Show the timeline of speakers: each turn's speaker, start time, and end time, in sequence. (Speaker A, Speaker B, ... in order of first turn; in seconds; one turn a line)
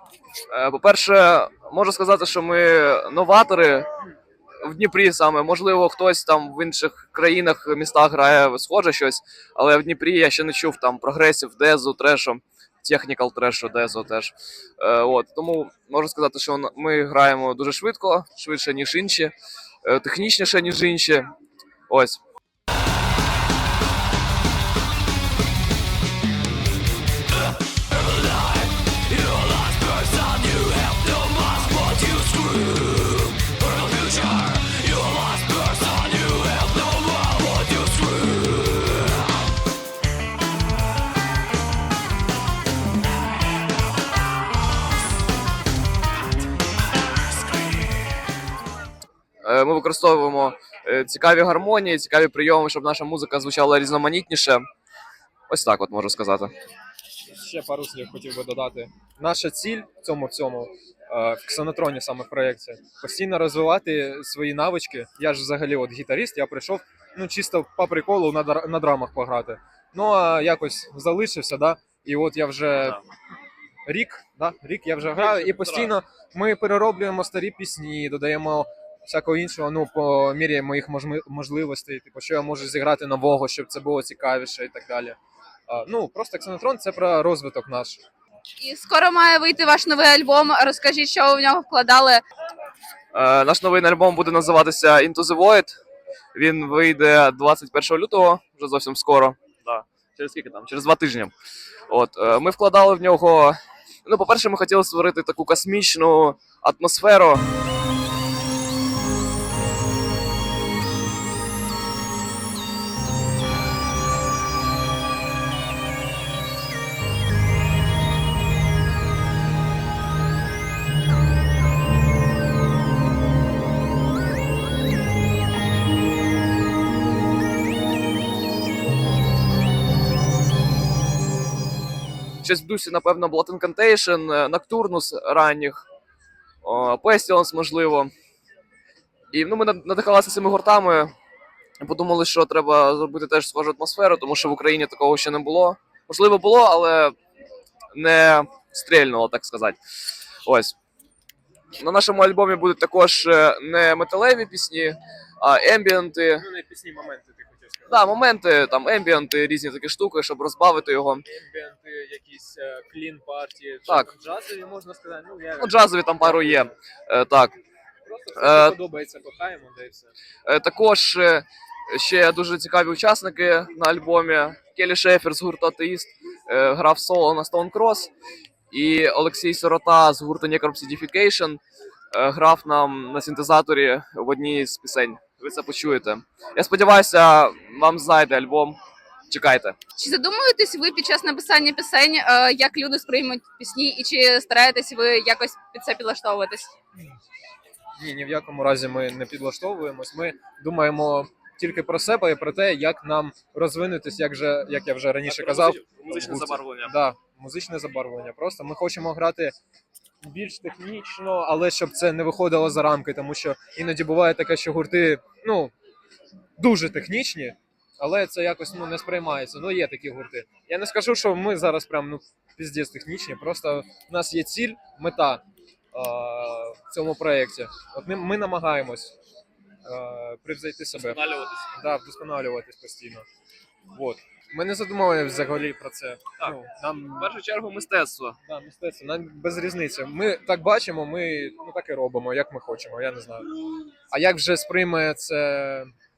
Speaker A: 0.5-3.9
Speaker A: 4.6-19.3
Speaker A: 19.8-21.3
Speaker A: 21.9-22.2
Speaker A: 49.4-54.6
Speaker A: 55.5-56.5
Speaker B: 57.3-73.0
Speaker B: 73.8-85.2
Speaker A: 75.2-75.9
Speaker B: 85.7-88.0
Speaker C: 88.7-92.2
Speaker A: 93.1-95.8
Speaker A: 96.3-101.3
Speaker A: 101.9-107.5
Speaker A: 132.4-135.8
Speaker A: 136.6-138.1
Speaker A: 139.3-141.1
Speaker A: 141.8-147.1
Speaker A: 147.9-149.8
Speaker A: 150.4-150.7
Speaker A: 151.8-156.4
Speaker B: 156.3-158.1
Speaker A: 157.9-161.2
Speaker B: 161.2-166.7
Speaker A: 165.6-167.6
Speaker B: 168.1-170.1
Speaker A: 168.3-168.7
Speaker A: 170.4-178.1
Speaker A: 178.7-181.6
Speaker A: 182.1-188.8
Speaker A: 189.3-189.8
Speaker C: 190.0-196.7
Speaker B: 198.0-209.5
Speaker A: 205.2-206.9
Speaker B: 210.2-215.7
Speaker B: 216.6-229.1
Speaker B: 229.8-231.2
Speaker A: 230.9-231.7
Speaker B: 231.7-233.2
Speaker B: 233.9-237.3
Speaker A: 237.2-238.3
Speaker B: 238.4-243.4
Speaker B: 244.1-245.9